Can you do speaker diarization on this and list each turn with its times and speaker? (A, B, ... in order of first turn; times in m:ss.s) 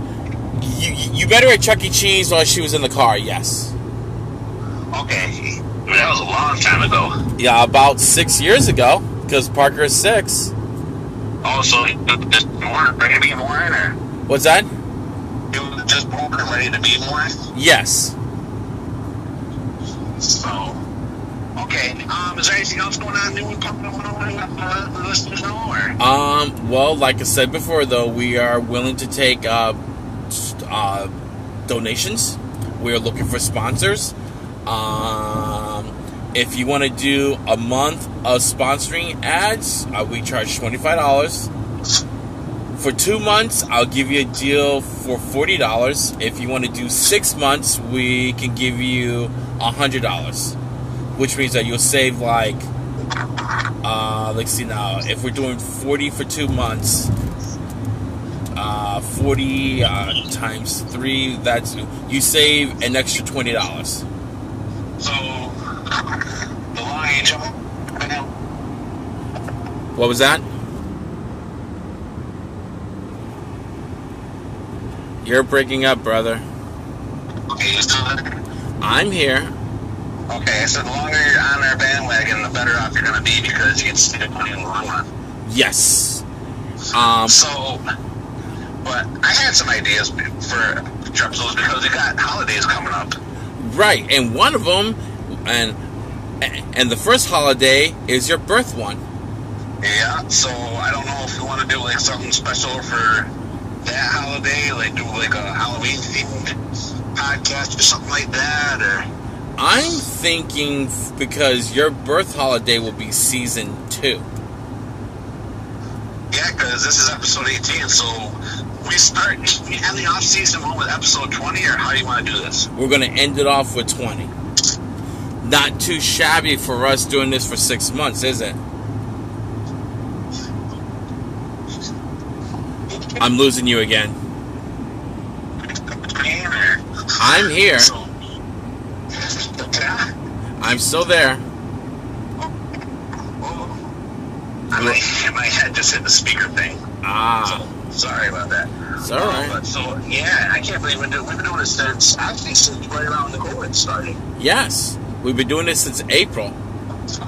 0:00.5-0:03.7 A
0:04.9-0:07.1 B
0:07.4-0:10.5 A
0:11.4-0:14.0 B
0:14.3-0:14.7 A
0:15.5-0:17.5 B
0:17.5-0:18.2 A
0:20.2-0:20.8 B
0:21.6-0:26.0 B
0:26.0-0:29.8 A
0:30.3-0:31.1 A
0:31.7-0:34.1 A
0:34.6-0:41.5 A
0:42.7-0:50.6 A
0:51.1-0:52.7 A
0:53.8-0:57.1 A
0:58.5-1:04.0 A
1:05.0-1:06.2 B
1:06.7-1:08.3 B
1:10.0-1:10.4 A
1:15.2-1:16.4 A
1:17.5-1:18.4 B
1:18.8-1:19.5 A
1:20.3-1:25.1 B
1:25.4-1:26.2 A
1:26.9-1:27.4 A
1:27.2-1:27.8 B
1:28.8-1:33.2 B
1:33.6-1:35.8 A
1:36.4-1:39.0 A
1:39.8-1:43.3 B
1:43.8-1:46.5 B
1:47.1-1:49.1 B
1:49.6-1:54.2 A
1:56.3-2:02.7 B
2:02.8-2:04.3 A
2:05.4-2:08.6 A
2:13.2-2:14.2 A
2:15.9-2:18.1 B
2:17.2-2:17.9 A
2:19.2-2:20.1 B
2:20.6-2:21.4 A
2:23.4-2:23.8 B
2:24.7-2:25.0 A
2:24.7-2:26.8 B
2:27.0-2:27.6 A
2:27.4-2:34.2 B
2:29.0-2:29.6 A
2:34.4-2:36.6 A